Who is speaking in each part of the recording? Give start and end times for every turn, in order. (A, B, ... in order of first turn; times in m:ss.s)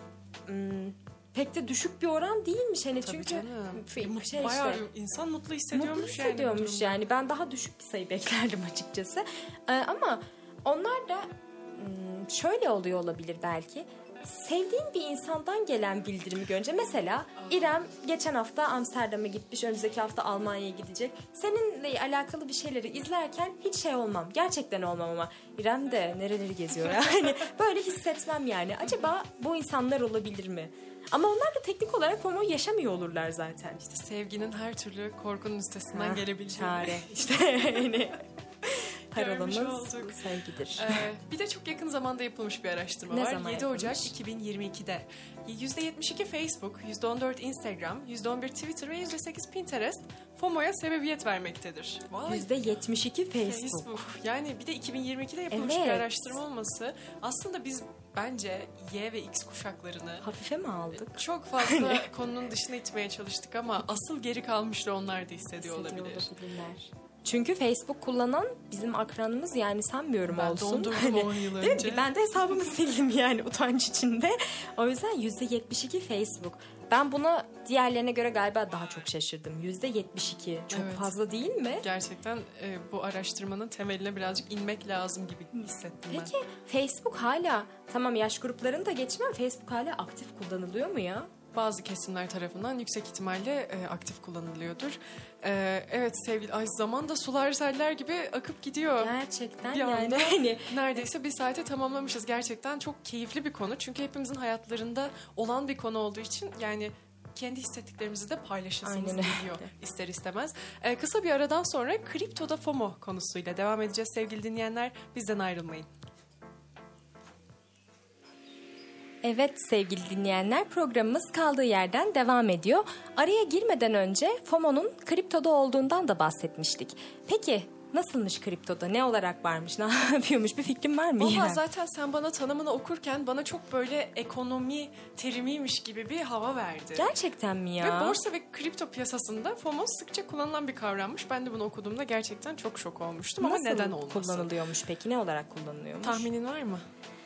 0:00.4-0:04.8 A
0:03.0-0:07.0 B
0:05.7-0:33.8 A
0:17.4-0:17.8 B
0:33.8-0:37.7 B
0:35.9-0:41.0 A
0:39.1-0:40.2 B
0:40.7-0:52.6 B
0:43.1-0:44.1 A
0:52.3-0:54.0 A
0:53.4-1:00.2 B
0:55.5-0:56.4 A
1:00.2-1:02.0 A
1:00.9-1:06.3 B
1:05.6-1:21.8 A
1:10.3-1:12.1 B
1:20.7-1:21.2 B
1:21.8-1:26.3 B
1:26.1-1:31.3 A
1:31.5-1:39.1 B
1:39.0-1:41.0 A
1:39.7-1:55.9 B
1:48.8-1:49.7 A
1:59.2-2:11.6 A
2:11.2-2:17.1 B
2:17.0-2:18.2 A
2:17.8-2:24.5 B
2:23.4-2:26.3 A
2:26.0-2:26.8 B